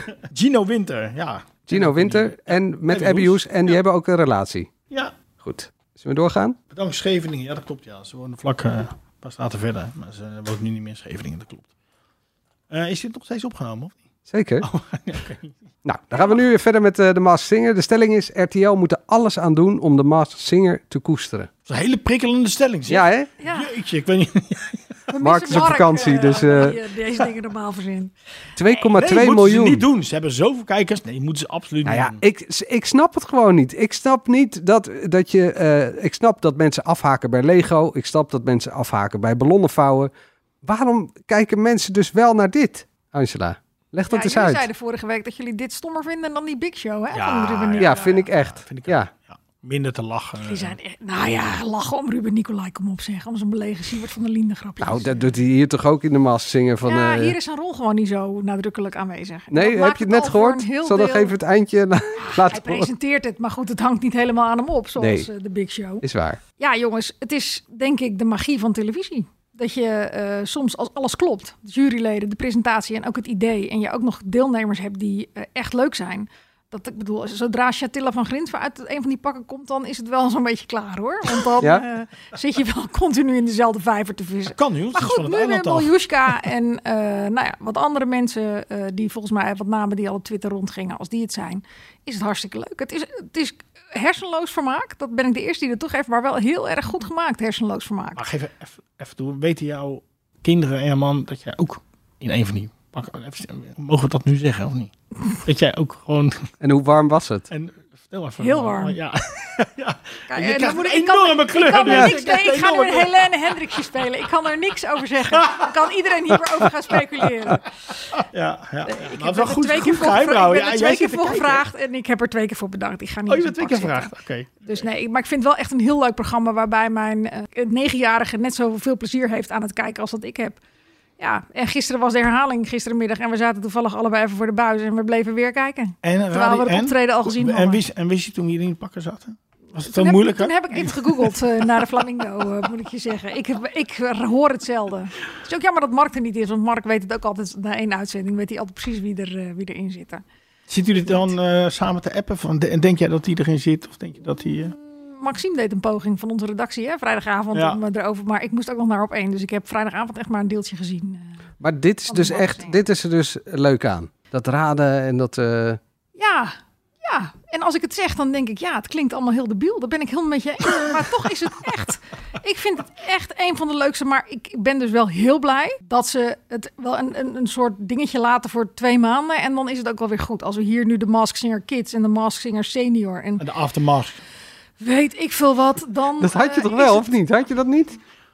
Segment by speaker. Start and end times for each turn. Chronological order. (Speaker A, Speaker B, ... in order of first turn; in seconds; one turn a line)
Speaker A: 0.3-3.8
Speaker B: 1.7-4.7
Speaker B: 5.4-6.6
Speaker A: 6.7-11.7
Speaker A: 12.7-13.9
Speaker B: 14.3-14.7
Speaker A: 14.6-15.5
Speaker B: 15.8-21.5
Speaker C: 16.1-16.4
Speaker A: 21.6-24.8
Speaker B: 22.9-23.3
Speaker C: 23.4-23.7
Speaker C: 25.1-28.1
Speaker B: 25.2-26.8
Speaker A: 25.9-26.4
Speaker B: 28.6-29.9
Speaker A: 28.9-32.2
Speaker B: 31.9-40.1
Speaker B: 40.6-44.7
Speaker C: 44.1-48.2
Speaker A: 47.1-50.8
Speaker B: 47.8-49.1
Speaker C: 50.4-55.3
Speaker B: 54.8-57.4
Speaker C: 56.8-61.4
Speaker B: 59.5-62.9
Speaker C: 62.2-66.0
Speaker B: 65.0-65.3
Speaker B: 66.0-66.4
Speaker C: 66.6-98.2
Speaker A: 84.5-86.4
Speaker A: 98.2-104.9
Speaker A: 105.4-106.4
Speaker B: 106.6-107.5
Speaker A: 107.5-113.4
Speaker C: 108.4-109.0
Speaker C: 110.3-117.7
Speaker B: 111.9-112.1
Speaker A: 115.3-115.7
Speaker A: 118.2-121.6
Speaker C: 118.9-124.1
Speaker A: 123.3-124.8
Speaker C: 124.6-130.6
Speaker C: 131.2-137.8
Speaker A: 136.0-141.8
Speaker C: 139.9-150.2
Speaker A: 150.7-154.7
Speaker C: 155.0-161.3
Speaker A: 157.5-157.8
Speaker B: 161.6-165.8
Speaker C: 162.1-162.8
Speaker C: 166.2-183.4
Speaker A: 183.4-184.2
Speaker C: 184.8-187.1
Speaker B: 186.2-188.0